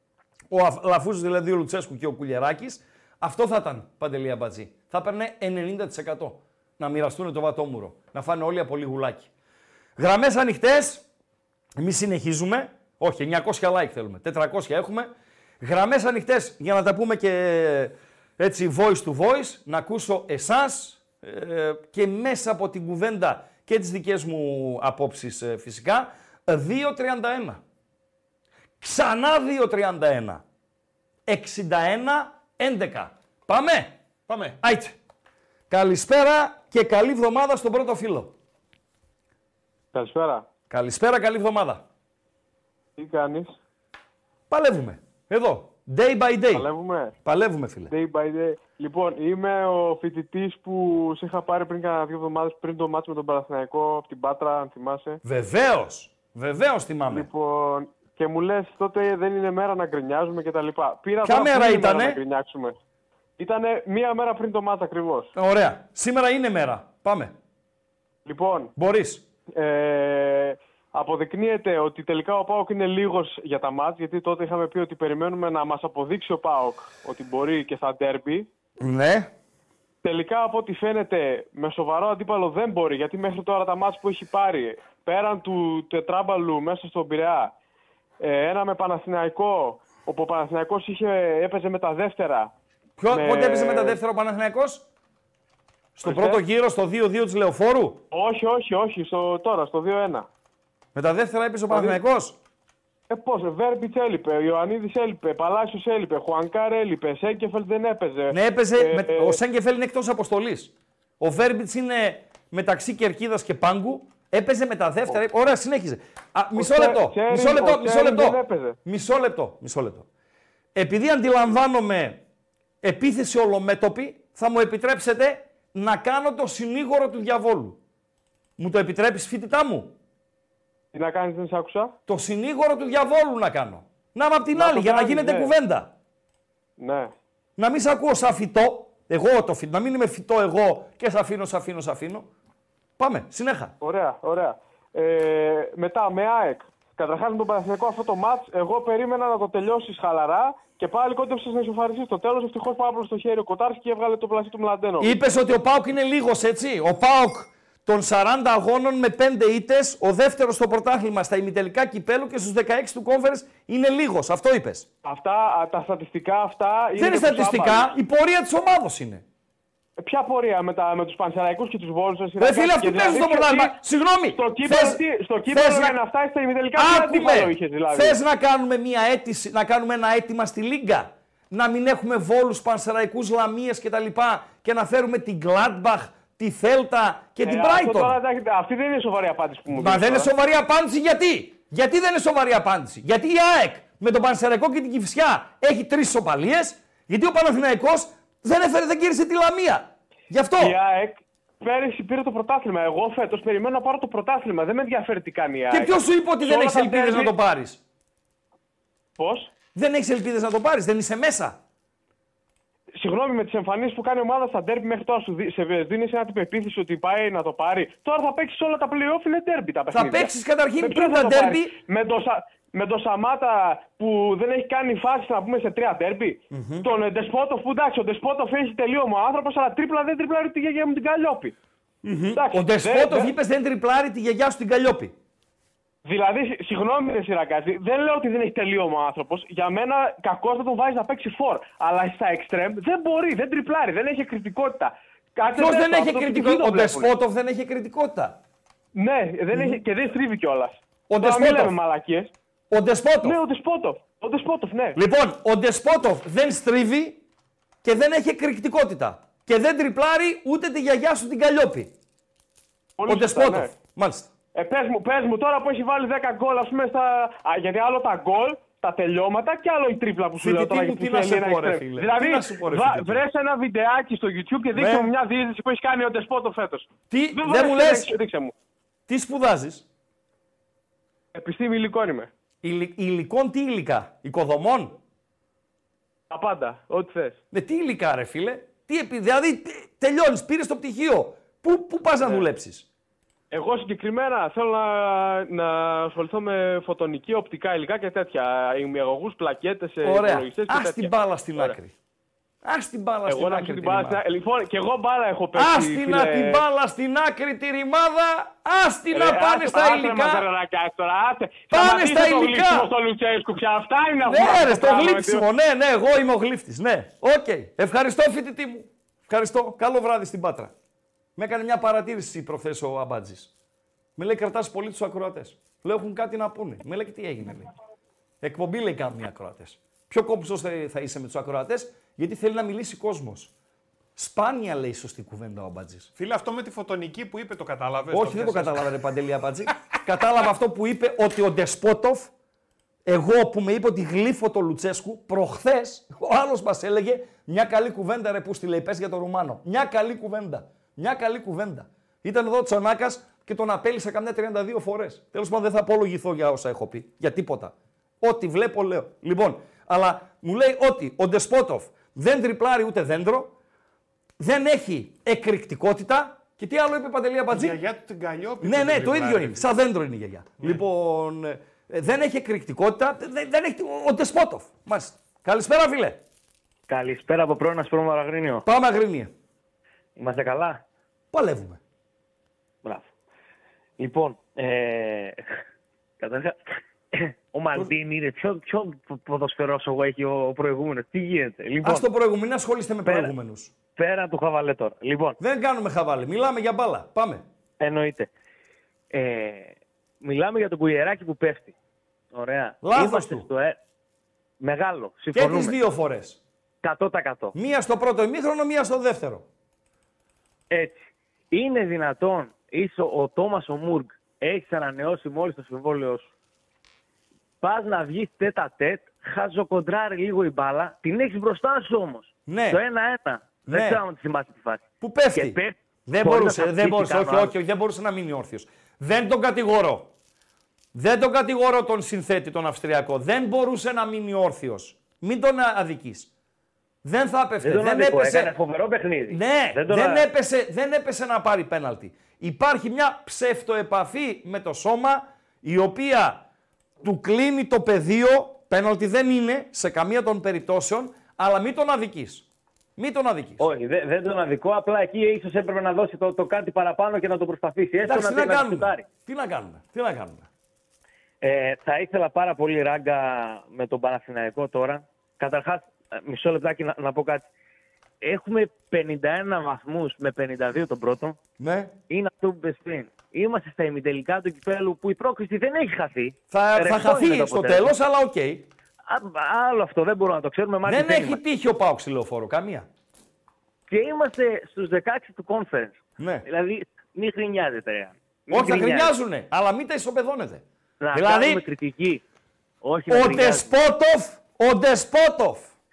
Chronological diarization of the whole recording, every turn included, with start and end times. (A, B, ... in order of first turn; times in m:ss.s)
0:00.5-0:09.3 A
0:10.0-0:11.0 A
0:11.8-0:15.1 A
0:15.6-0:27.6 A
0:28.8-0:30.4 A
0:31.3-0:34.0 A
0:34.3-0:34.6 B
0:34.6-0:35.0 A
0:35.7-0:38.3 A
0:39.9-0:40.4 C
0:40.7-0:41.8 A
0:43.0-0:43.6 C
0:44.5-0:46.7 A
0:46.5-0:47.2 C
0:47.2-0:47.9 A
0:47.9-0:55.2 C
0:55.2-0:57.3 A
0:57.1-1:02.8 C
1:01.2-1:02.2 A
1:03.4-1:05.3 C
1:05.4-1:07.3 A
1:08.2-1:08.7 C
1:08.8-1:09.2 A
1:09.6-1:18.5 C
1:18.8-1:19.3 A
1:20.0-1:27.5 C
1:28.2-1:32.5 C
1:33.0-1:34.9 A
1:33.1-1:34.0 C
1:36.0-1:38.0 A
1:36.0-1:36.4 C
1:38.1-1:40.3 C
1:41.0-1:42.4 A
1:41.7-1:42.0 C
1:43.1-1:49.4 C
1:48.3-2:00.1 A
1:56.6-1:58.8 C
2:00.8-2:02.2 A
2:02.8-2:07.8 A
2:08.6-2:09.9 A
2:10.9-2:11.9 C
2:12.1-2:15.9 A
2:14.5-2:15.5 C
2:16.8-2:17.1 C
2:17.6-2:22.3 A
2:23.0-2:23.7 A
2:23.8-2:35.2 C
2:35.0-2:44.9 A
2:45.0-2:48.0 C
2:46.9-2:49.2 A
2:50.0-2:53.8 C
2:52.4-2:56.0 A
2:54.3-2:58.2 C
2:56.8-3:08.2 A
3:07.4-3:10.3 C
3:09.7-3:20.8 A
3:20.6-3:27.3 C
3:25.7-3:27.8 A
3:29.2-3:29.5 C
3:29.8-3:31.6 A
3:33.0-3:51.6 C
3:39.9-3:41.8 A
3:46.5-3:46.9 A
3:52.0-3:55.1 A
3:52.3-3:53.3 C
3:56.0-4:07.1 C
4:05.5-4:08.4 A
4:09.0-4:12.3 C
4:09.5-4:09.8 A
4:11.1-4:11.8 A
4:12.7-4:13.4 A
4:13.2-4:15.0 C
4:15.0-4:17.2 A
4:17.8-4:21.9 A
4:23.0-4:23.7 C
4:23.1-4:24.3 A
4:24.6-4:38.5 C
4:30.4-4:33.2 A
4:34.8-4:35.1 A
4:37.1-4:38.2 A
4:39.1-4:39.8 A
4:41.3-4:42.3 C
4:42.6-4:45.0 A
4:46.3-4:47.4 C
4:47.5-4:52.9 A
4:53.5-5:01.8 C
5:00.0-5:01.9 A
5:02.6-5:04.2 A
5:03.3-5:06.6 C
5:05.5-5:10.5 A
5:09.1-5:15.5 C
5:11.7-5:12.9 A
5:14.2-5:20.7 A
5:21.4-5:23.5 A
5:24.2-5:27.7 A
5:28.4-5:33.5 A
5:34.2-5:36.1 A
5:36.2-5:38.9 B
5:38.1-5:42.3 A
5:43.1-6:03.5 A
6:04.4-6:07.8 A
6:07.5-6:09.7 B
6:08.6-6:16.2 A
6:10.6-6:10.8 B
6:16.9-6:18.7 D
6:18.6-6:19.3 A
6:20.2-6:20.8 D
6:21.3-6:21.8 A
6:24.0-6:25.4 D
6:26.2-6:26.6 D
6:27.1-6:32.0 D
6:31.8-6:33.7 A
6:33.1-6:33.3 D
6:34.0-6:35.4 D
6:35.4-6:37.4 A
6:37.8-6:38.3 D
6:39.1-6:41.7 D
6:42.3-6:43.8 D
6:42.8-6:43.5 A
6:44.6-6:45.8 D
6:45.3-6:46.4 A
6:46.8-6:47.5 D
6:47.5-6:49.4 A
6:50.7-6:56.3 D
6:57.6-7:07.5 D
7:02.5-7:02.8 A
7:03.7-7:04.0 A
7:05.0-7:10.1 A
7:11.0-7:16.3 A
7:17.0-7:18.5 A
7:17.6-7:20.2 D
7:19.3-7:26.4 A
7:27.0-7:32.5 A
7:33.0-7:33.6 A
7:33.6-7:39.0 D
7:38.0-7:40.5 A
7:41.4-7:47.4 D
7:48.2-7:51.4 D
7:51.6-7:51.9 A
7:52.1-7:57.9 D
7:56.5-7:58.7 A
7:59.1-8:01.4 D
8:00.9-8:02.9 A
8:03.9-8:09.1 D
8:06.2-8:06.4 A
8:08.5-8:10.6 A
8:11.0-8:12.2 D
8:11.1-8:11.6 A
8:12.8-8:13.7 D
8:13.1-8:15.7 A